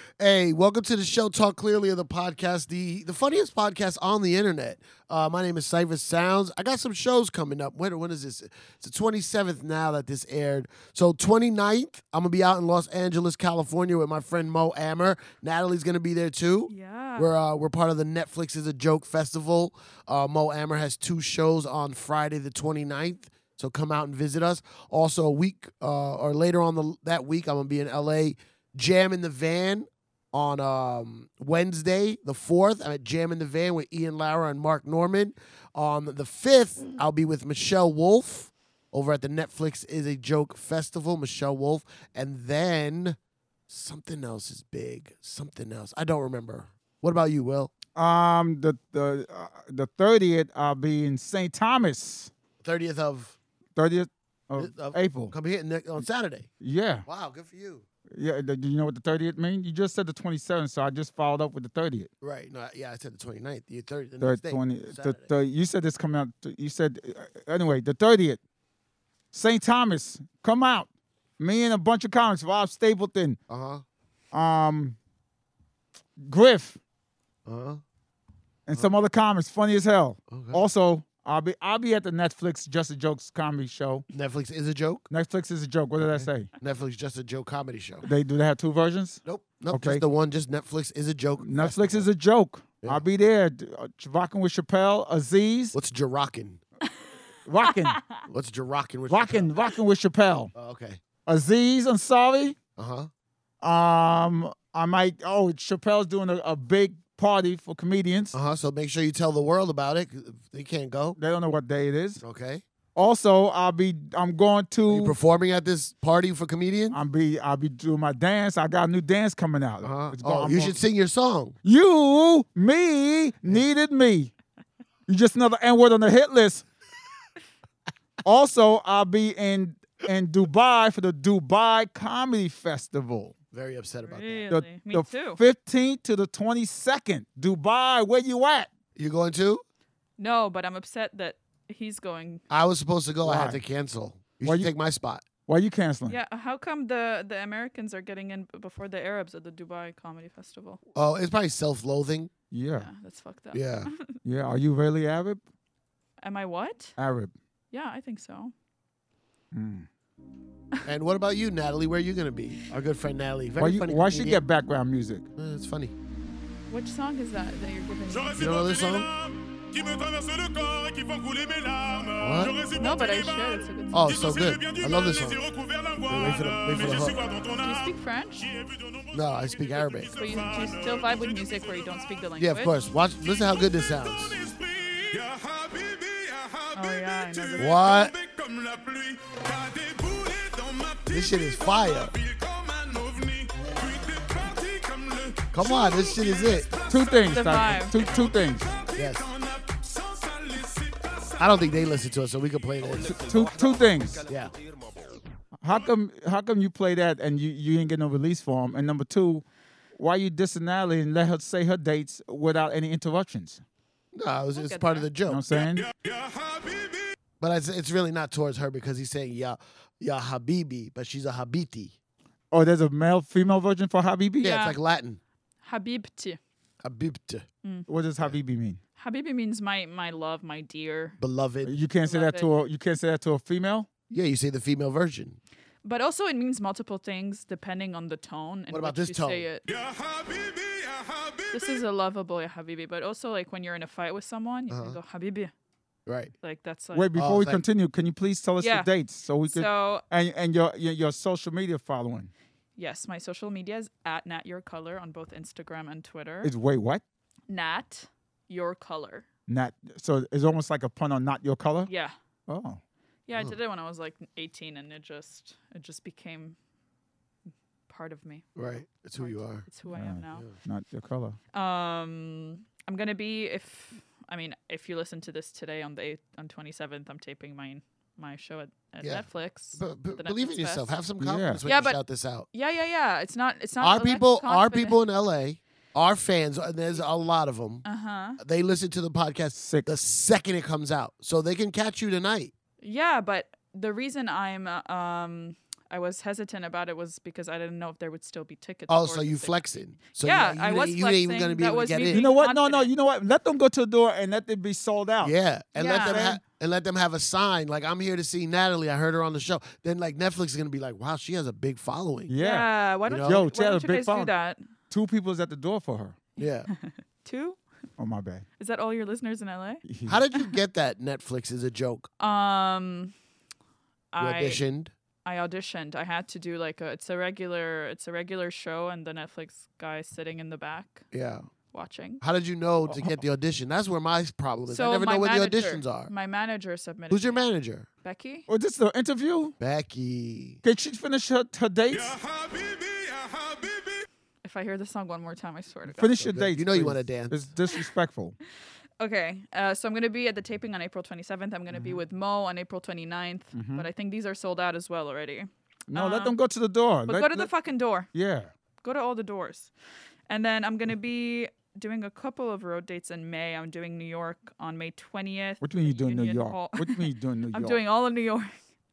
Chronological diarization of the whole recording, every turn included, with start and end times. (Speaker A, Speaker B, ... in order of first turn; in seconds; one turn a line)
Speaker A: 0.2-43.2
Speaker B: 16.7-17.3
Speaker A: 43.7-47.7
Speaker C: 48.0-52.3
Speaker A: 52.6-53.4
Speaker C: 53.8-55.3
Speaker A: 54.6-56.5
Speaker C: 56.6-57.0
Speaker A: 57.0-57.8
Speaker C: 58.1-62.1
Speaker A: 62.2-65.3
Speaker C: 64.2-68.4
Speaker C: 69.3-73.4
Speaker A: 73.5-73.8
Speaker C: 74.3-75.0
Speaker C: 76.2-76.8
Speaker A: 77.5-77.8
Speaker C: 78.7-84.0
Speaker A: 80.3-80.6
Speaker A: 84.1-85.1
Speaker C: 85.1-86.5
Speaker A: 86.0-88.0
Speaker C: 88.0-90.0
Speaker A: 89.2-92.0
Speaker C: 91.4-95.8
Speaker A: 95.7-96.6
Speaker C: 97.5-98.0
Speaker B: 97.6-98.2
Speaker A: 98.2-99.5
Speaker C: 99.1-100.5
Speaker A: 100.5-101.0
Speaker C: 101.2-102.6
Speaker A: 102.8-103.1
Speaker C: 103.6-108.3
Speaker A: 108.3-111.2
Speaker C: 111.2-112.2
Speaker A: 112.2-112.6
Speaker C: 112.9-115.2
Speaker A: 114.9-117.0
Speaker C: 116.9-120.8
Speaker A: 119.8-121.5
Speaker C: 121.6-124.3
Speaker C: 125.1-126.6
Speaker C: 128.2-133.3
Speaker A: 133.5-134.4
Speaker B: 134.1-135.4
Speaker C: 134.5-138.7
Speaker A: 138.9-139.6
Speaker B: 140.2-142.4
Speaker A: 142.5-145.2
Speaker C: 143.2-143.6
Speaker C: 144.4-144.7
Speaker C: 145.5-146.2
Speaker B: 146.1-150.8
Speaker A: 150.9-152.3
Speaker C: 152.5-152.9
Speaker B: 152.8-154.1
Speaker A: 153.5-153.9
Speaker C: 154.2-155.4
Speaker B: 156.2-156.9
Speaker C: 157.0-157.3
Speaker B: 157.7-158.5
Speaker C: 159.5-159.9
Speaker A: 160.8-164.4
Speaker C: 163.6-165.2
Speaker A: 165.4-165.9
Speaker B: 166.7-168.4
Speaker D: 168.1-182.0
Speaker A: 168.3-169.1
Speaker A: 172.2-172.6
Speaker B: 172.8-174.1
Speaker A: 173.9-175.4
Speaker A: 176.1-177.2
Speaker B: 177.6-178.4
Speaker A: 179.1-180.1
Speaker B: 180.2-182.7
Speaker A: 182.4-184.5
Speaker D: 183.4-201.9
Speaker B: 186.7-187.8
Speaker A: 187.6-188.1
Speaker A: 191.1-192.1
Speaker A: 195.5-196.7
Speaker C: 196.9-198.7
Speaker B: 197.3-198.0
Speaker A: 198.9-199.3
Speaker A: 201.4-203.3
Speaker C: 203.0-204.3
Speaker A: 204.3-204.5
Speaker C: 205.6-209.4
Speaker C: 209.9-213.6
Speaker A: 214.1-215.4
Speaker B: 214.5-215.1
Speaker C: 215.3-215.9
Speaker D: 215.5-217.2
Speaker A: 217.4-221.9
Speaker C: 222.5-224.6
Speaker A: 224.4-225.2
Speaker B: 224.4-224.8
Speaker B: 225.6-226.4
Speaker A: 226.8-227.4
Speaker C: 227.9-228.8
Speaker B: 229.0-231.2
Speaker A: 231.2-231.7
Speaker C: 231.6-233.9
Speaker B: 232.0-232.5
Speaker A: 234.1-235.4
Speaker B: 235.8-239.6
Speaker A: 238.7-239.5
Speaker D: 239.7-241.8
Speaker B: 241.5-245.5
Speaker A: 244.7-245.0
Speaker A: 246.1-246.3
Speaker B: 246.4-247.1
Speaker C: 246.9-252.3
Speaker A: 247.1-247.6
Speaker B: 248.6-248.9
Speaker B: 249.5-250.0
Speaker B: 252.8-256.5
Speaker C: 256.4-257.0
Speaker B: 257.5-259.2
Speaker C: 259.5-261.9
Speaker B: 261.9-262.1
Speaker C: 262.5-262.8
Speaker B: 263.3-266.6
Speaker B: 267.9-268.5
Speaker A: 268.6-269.6
Speaker B: 269.2-270.4
Speaker C: 269.9-271.4
Speaker B: 271.5-280.8
Speaker A: 279.0-282.5
Speaker C: 281.2-281.6
Speaker B: 281.6-282.0
Speaker B: 282.5-285.0
Speaker A: 283.8-287.8
Speaker B: 287.8-288.4
Speaker A: 288.4-292.5
Speaker C: 289.6-289.9
Speaker B: 292.8-299.6
Speaker A: 298.9-302.2
Speaker B: 300.2-302.9
Speaker C: 302.1-305.3
Speaker A: 305.2-312.3
Speaker B: 305.8-306.2
Speaker C: 305.9-306.4
Speaker C: 312.3-312.7
Speaker B: 312.4-314.6
Speaker A: 313.1-313.4
Speaker C: 313.2-314.3
Speaker C: 314.9-316.2
Speaker A: 316.4-316.7
Speaker B: 316.7-317.6
Speaker C: 318.0-318.4
Speaker B: 318.6-319.8
Speaker C: 319.8-320.2
Speaker A: 320.1-322.1
Speaker B: 322.2-323.1
Speaker B: 324.1-324.6
Speaker A: 324.2-324.9
Speaker B: 325.2-331.1
Speaker A: 331.1-331.5
Speaker B: 331.7-332.2
Speaker A: 332.2-336.1
Speaker C: 332.8-333.2
Speaker B: 334.7-337.4
Speaker A: 337.1-337.9
Speaker B: 338.0-338.5
Speaker C: 338.5-339.5
Speaker A: 339.6-340.6
Speaker C: 340.6-342.2
Speaker D: 341.9-344.1
Speaker B: 344.4-346.3
Speaker C: 345.9-348.4
Speaker A: 346.3-347.4
Speaker B: 349.0-356.3
Speaker C: 351.7-352.0
Speaker C: 353.5-353.9
Speaker C: 355.9-357.5
Speaker B: 357.1-358.1
Speaker C: 358.1-358.5
Speaker B: 358.8-359.7
Speaker B: 360.3-368.6
Speaker C: 365.6-367.8